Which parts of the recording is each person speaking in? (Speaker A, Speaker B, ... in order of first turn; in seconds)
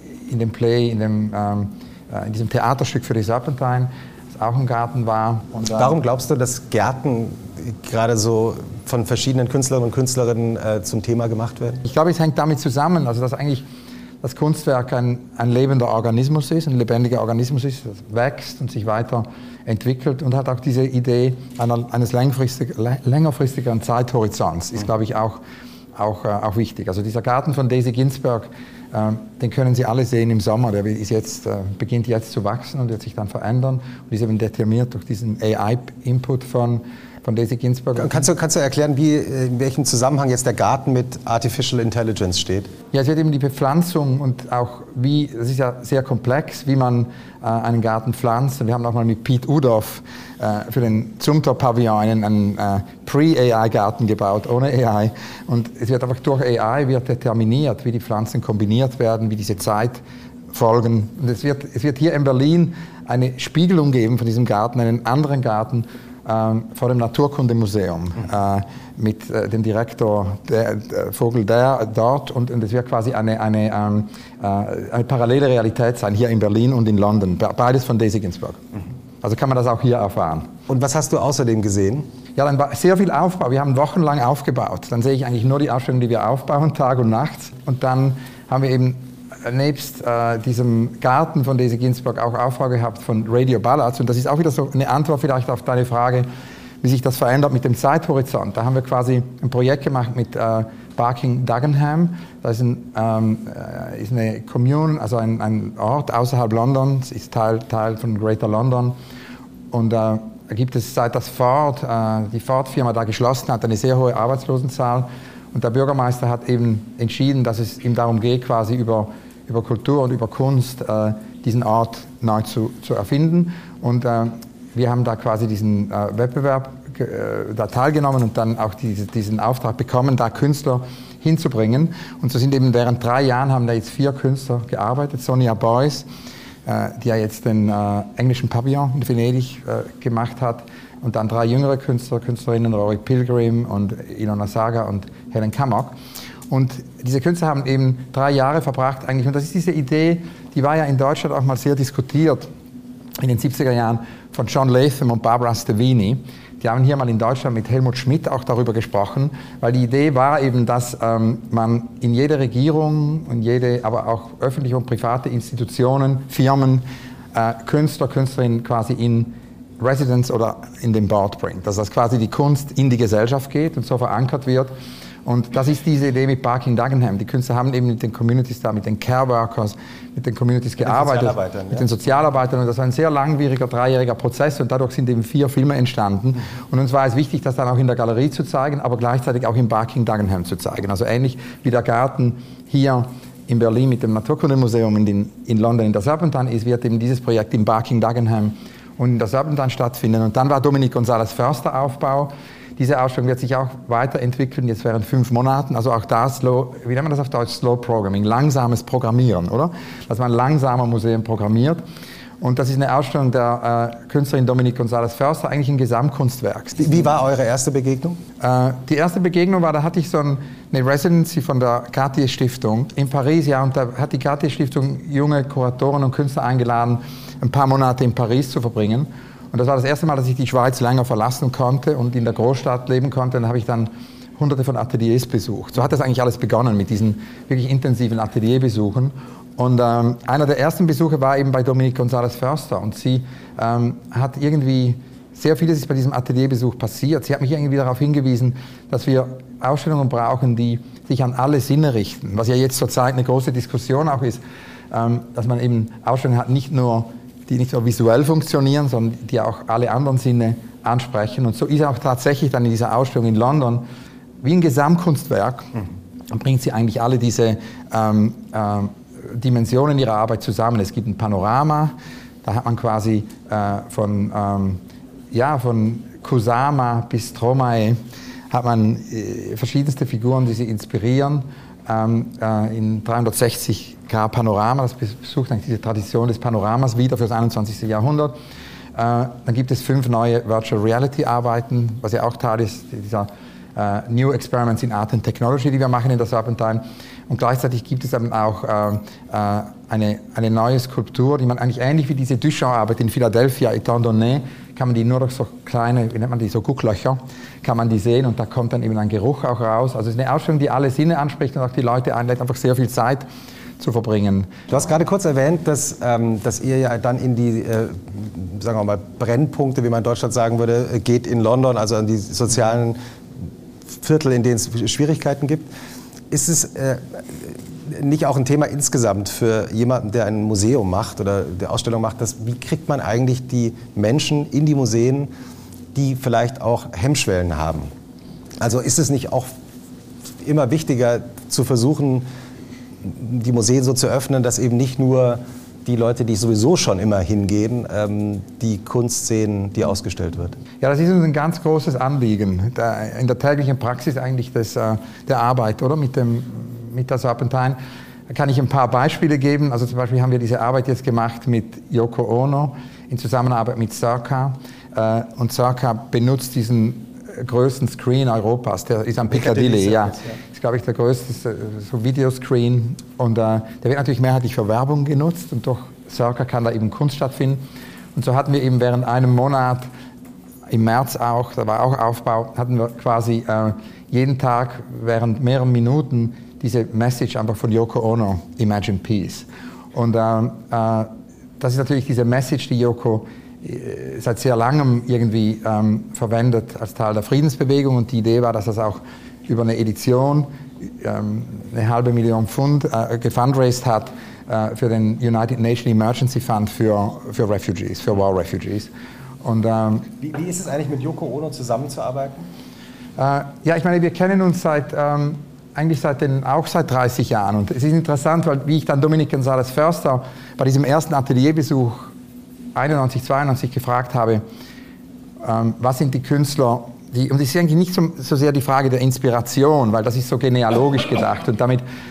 Speaker A: 0.3-6.0, 11.8-13.6, 14.2-25.4, 25.9-38.3, 42.9-78.7, 79.2-80.5, 82.3-96.3, 96.8-108.9, 109.7-136.1, 136.7-145.9, 146.5-152.5, 153.2-174.7, 175.2-211.8, 212.4-217.1, 218.4-263.8, 264.4-265.7, 266.3-278.0, 278.5-288.3, 288.9-313.2, 313.8-314.5, 350.8-357.8, 358.3-377.6, 378.1-379.9, 380.7-408.9, 409.4-410.1, 413.2-422.1, 422.7-424.4, 425.4-431.8
Speaker B: 5.7-11.8, 38.0-42.7, 80.7-82.0, 180.8-181.8, 216.8-218.2, 314.7-323.0, 323.9-325.7, 326.3-335.3, 335.9-337.9, 338.6-339.5, 340.4-342.2, 343.0-350.6, 369.3-370.3, 410.2-412.5